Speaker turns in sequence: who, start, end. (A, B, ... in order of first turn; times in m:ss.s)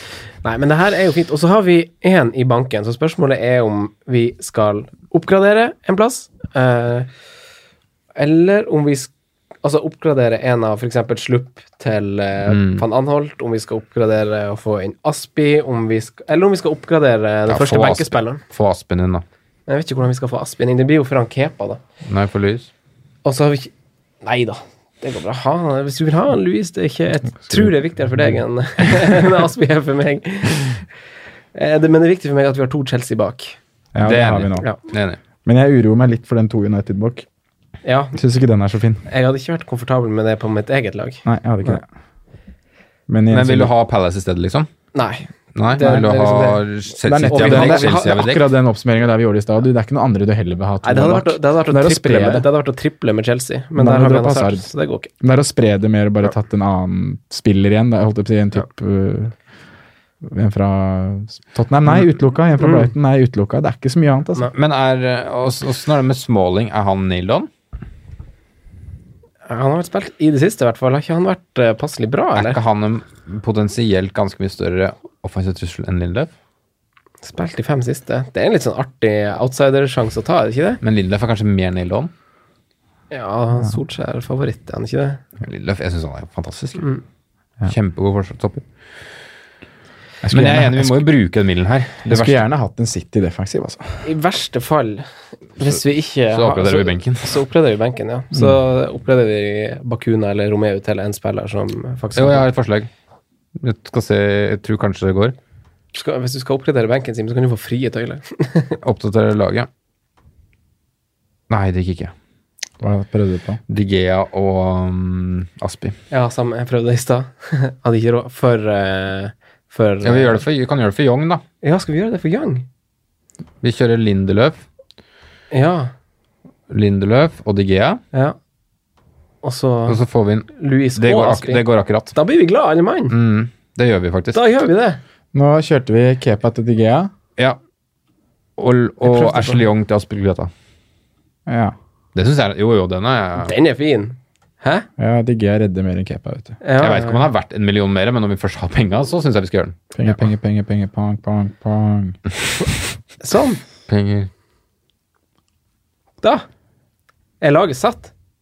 0:00.4-0:07.1 A
0:08.2-0:09.1 A
0:09.6-0:18.4 A
0:12.5-0:12.8 B
0:17.5-0:19.2 B
0:19.7-0:21.8 A
0:22.0-0:22.7 B
0:23.2-0:23.7 A
0:24.2-0:30.8 A
0:31.5-0:33.6 A
0:33.9-0:34.7 C
0:34.0-0:35.2 B
0:35.4-0:37.3 C
0:37.8-0:38.2 A
0:38.1-0:39.0 C
0:39.1-0:41.8 A
0:41.2-0:41.8 C
0:43.1-0:43.7 C
0:43.3-0:44.7 B
0:44.9-0:46.7 A
0:45.5-0:48.5 B
0:47.0-0:52.5 C
0:47.2-0:48.2 A
0:50.8-0:55.1 A
0:53.8-0:54.7 C
0:55.2-0:59.3 C
1:00.2-1:04.5 C
1:02.6-1:02.9 A
1:04.5-1:07.5 B
1:09.5-1:12.6 A
1:12.4-1:16.3 B
1:17.2-1:20.8 A
1:20.8-1:22.1 B
1:23.1-1:25.2 A
1:25.4-1:26.9 B
1:27.6-1:28.6 B
1:30.2-1:31.0 C
1:30.3-1:32.4 B
1:32.0-1:34.1 C
1:34.0-1:35.1 A
1:35.6-1:42.5 A
1:36.3-1:37.3 B
1:42.2-1:42.9 B
1:43.6-1:45.4 B
1:45.9-1:48.8 A
1:48.8-1:49.7 B
1:51.5-1:52.1 B
1:52.8-1:53.6 C
1:53.7-1:56.0 B
1:56.1-2:00.4 A
2:00.0-2:01.4 B
2:01.6-2:02.6 A
2:03.6-2:04.6 B
2:05.5-2:05.9 A
2:06.7-2:08.0 B
2:09.4-2:10.0 A
2:09.9-2:12.1 B
2:10.5-2:13.2 A
2:13.1-2:14.4 B
2:14.3-2:15.0 A
2:15.3-2:17.1 C
2:18.6-2:20.5 B
2:19.0-2:19.6 A
2:21.5-2:21.8 C
2:22.2-2:23.5 B
2:23.4-2:24.9 A
2:25.0-2:26.6 C
2:26.6-2:27.3 A
2:26.8-2:30.3 B
2:30.0-2:32.2 C
2:33.2-2:33.6 A
2:33.9-2:34.3 B
2:37.4-2:38.1 A